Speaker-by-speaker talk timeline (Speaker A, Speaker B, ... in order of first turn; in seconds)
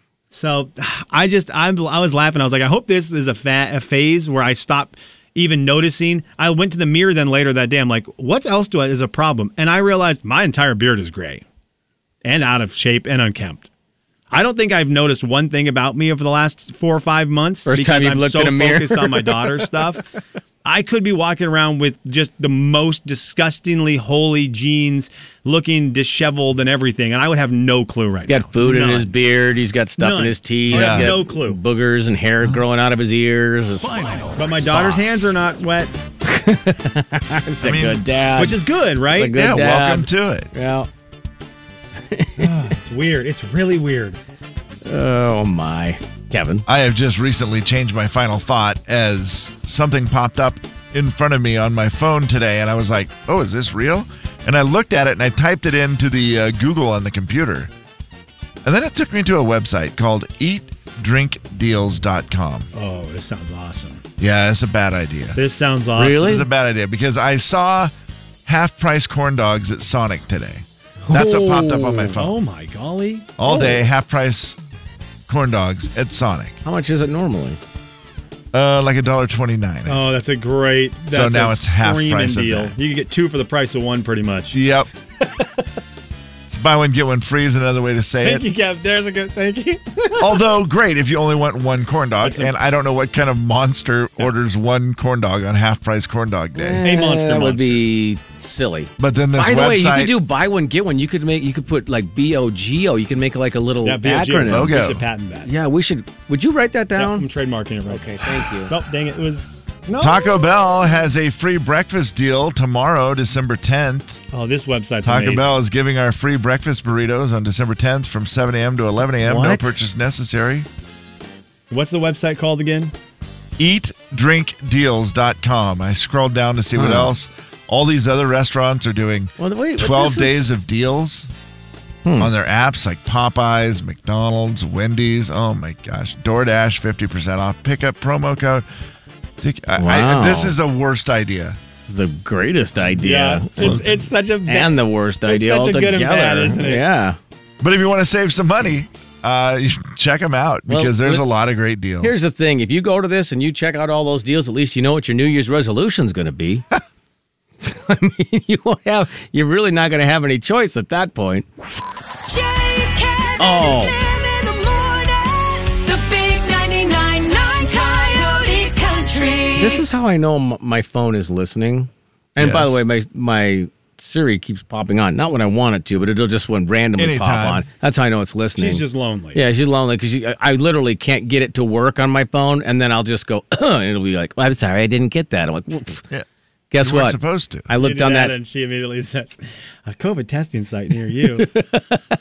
Speaker A: 0.3-11.4, 12.2-13.7, 14.3-20.1, 20.6-29.1, 30.0-31.6, 34.4-35.9, 38.4-39.4, 42.4-44.2, 62.7-64.0, 65.4-66.5, 72.2-73.7, 79.9-84.5, 88.2-90.5, 92.2-92.5, 96.8-97.8, 103.8-105.5, 107.0-110.7, 114.3-115.5, 119.2-119.7, 121.7-122.9, 142.9-146.9, 178.6-179.4, 187.8-191.5
Speaker B: 17.7-19.7, 28.3-34.1, 36.2-38.6, 39.1-40.9, 42.1-42.5, 44.9-46.6, 66.0-66.5, 71.1-72.2, 73.5-73.8, 76.6-77.6, 96.5-104.8, 105.5-107.3, 107.9-108.7, 126.8-127.1, 129.4-130.5, 132.1-132.3, 139.8-140.6, 141.8-143.8, 144.4-147.2, 150.7-151.2, 152.0-156.7, 157.6-161.5, 163.4-164.0, 169.6-186.1, 186.7-188.4, 191.4-192.0
Speaker C: 30.7-31.2, 37.6-38.0, 39.2-40.5, 46.7-57.7, 58.6-62.7, 64.2-65.4, 66.0-67.9, 68.5-72.4, 73.4-74.6, 75.3-76.6, 78.5-80.0, 81.1-82.8, 84.5-84.9, 86.5-88.5, 90.2-96.8, 99.0-100.2, 104.4-105.1, 110.0-114.2, 115.0-120.7, 123.6-131.3, 132.2-138.7, 139.4-141.6, 143.6-143.9, 147.6-152.2, 172.4-172.8, 177.0-177.7, 186.8-187.7
Speaker D: 162.3-169.8